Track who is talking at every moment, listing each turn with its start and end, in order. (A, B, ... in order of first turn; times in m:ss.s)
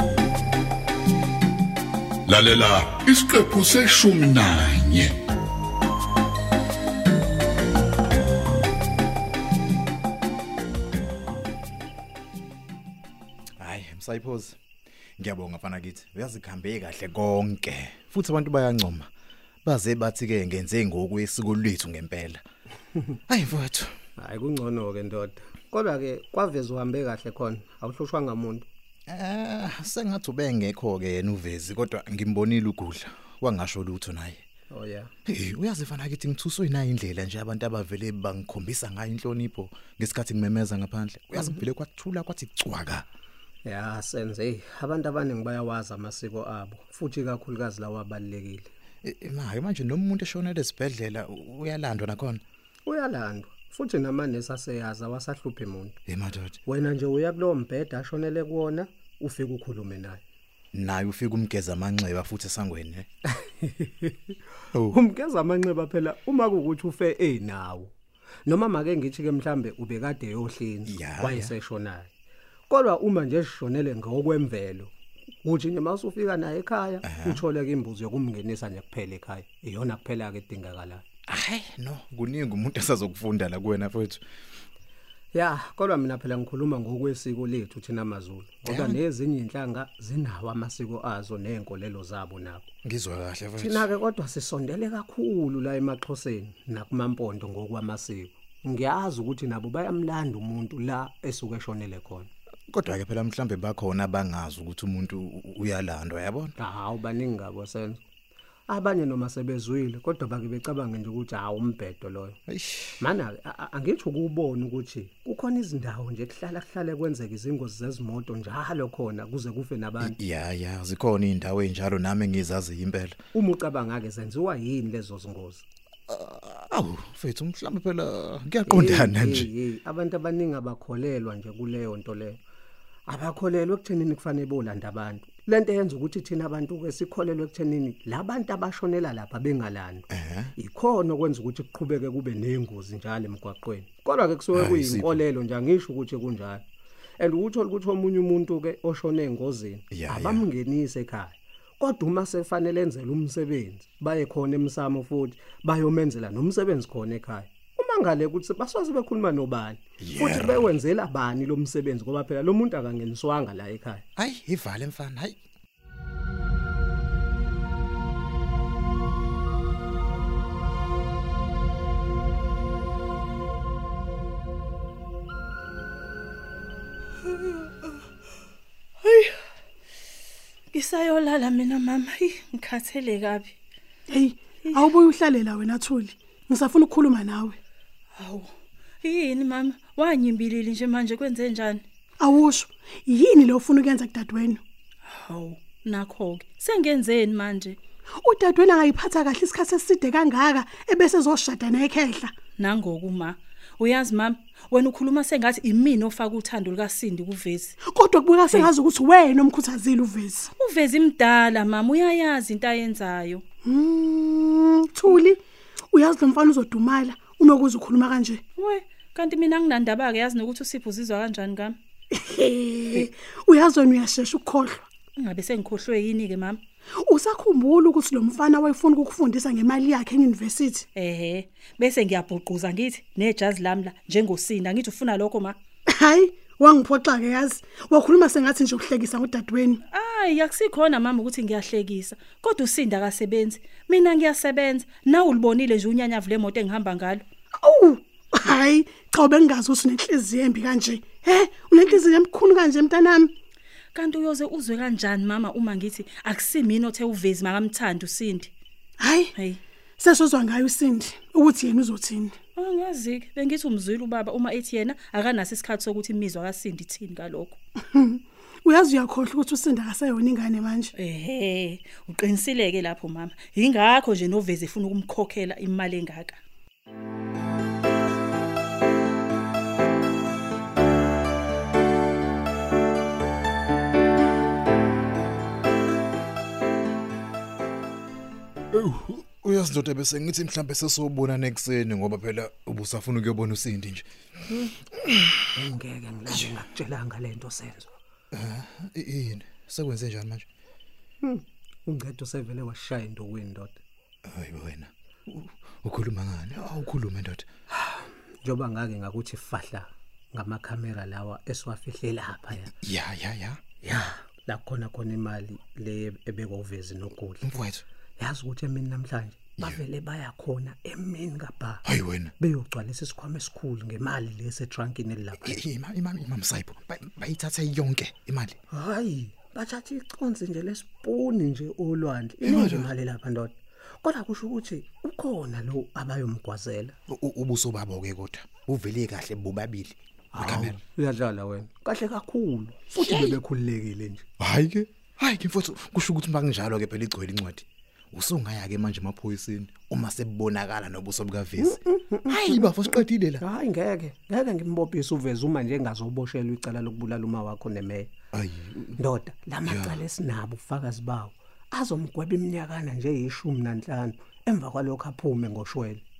0:02.2-0:05.2 A
0:13.6-0:14.6 B
0:15.2-0:19.1 B
0:19.6-0:22.4 B
0:23.3-0:23.9 B
0:24.2-0:28.7 C
0:29.1-0:34.4 B
0:34.7-0:35.1 C
0:35.2-0:43.0 B
0:43.6-0:48.7 C
0:49.0-0:52.4 B
0:52.9-0:56.0 C
0:56.1-0:56.6 B
0:56.7-1:00.2 C
1:00.7-1:03.1 B
1:03.4-1:04.4 C
1:04.9-1:07.9 C
1:08.4-1:12.1 C
1:10.9-1:11.5 B
1:12.7-1:14.9 C
1:15.4-1:21.0 C
1:17.0-1:17.4 B
1:21.3-1:24.2 B
1:25.3-1:32.7 C
1:28.7-1:29.0 B
1:32.8-1:33.9 B
1:33.6-1:42.3 C
1:42.7-1:46.5 B
1:46.6-1:48.0 C
1:48.7-1:52.4 C
1:52.5-1:53.0 B
1:53.0-2:00.2 C
2:00.0-2:03.2 B
2:03.3-2:05.6 C
2:06.1-2:09.5 B
2:08.7-2:12.4 C
2:13.1-2:26.6 C
2:20.1-2:20.5 B
2:24.5-2:25.2 B
2:27.2-2:44.0 C
2:29.9-2:30.5 B
2:40.0-2:40.7 B
2:44.2-2:45.4 B
2:59.0-2:59.3 D
3:00.7-3:03.5 D
3:04.1-3:07.6 E
3:08.2-3:08.5 D
3:09.0-3:11.8 D
3:12.2-3:14.6 E
3:15.2-3:17.8 D
3:18.2-3:22.3 E
3:22.6-3:27.8 D
3:27.8-3:30.5 E
3:30.6-3:33.4 D
3:33.6-3:35.4 E
3:35.9-3:38.4 E
3:38.6-3:41.8 D
3:42.1-3:44.8 E
3:45.2-3:46.6 D
3:47.0-3:50.8 E
3:51.0-3:55.5 D
3:55.9-3:59.8 E
3:59.9-4:07.2 D
4:07.6-4:13.3 E
4:14.0-4:18.5 D
4:19.0-4:19.3 E
4:20.0-4:22.3 E
4:22.6-4:27.6 D
4:27.9-4:30.9 E
4:31.0-4:36.4 D
4:48.8-4:54.7 B
4:55.5-4:57.9 C
4:58.3-5:00.4 B
5:01.2-5:03.8 C
5:04.2-5:07.4 B
5:07.7-5:12.7 C
5:12.7-5:13.6 B
5:13.8-5:17.5 C
5:17.4-5:17.8 B
5:18.2-5:21.8 C
5:21.8-5:22.3 B
5:22.4-5:25.6 C
5:25.4-5:28.6 B
5:28.7-5:36.9 C
5:32.4-5:32.9 B
5:37.1-5:40.8 B
5:40.3-5:44.2 C
5:42.9-5:43.4 B
5:44.4-5:53.4 B
5:51.6-5:52.7 C
5:53.4-5:58.1 C
5:58.3-5:58.9 B
5:59.0-6:06.0 C
5:59.6-6:00.0 B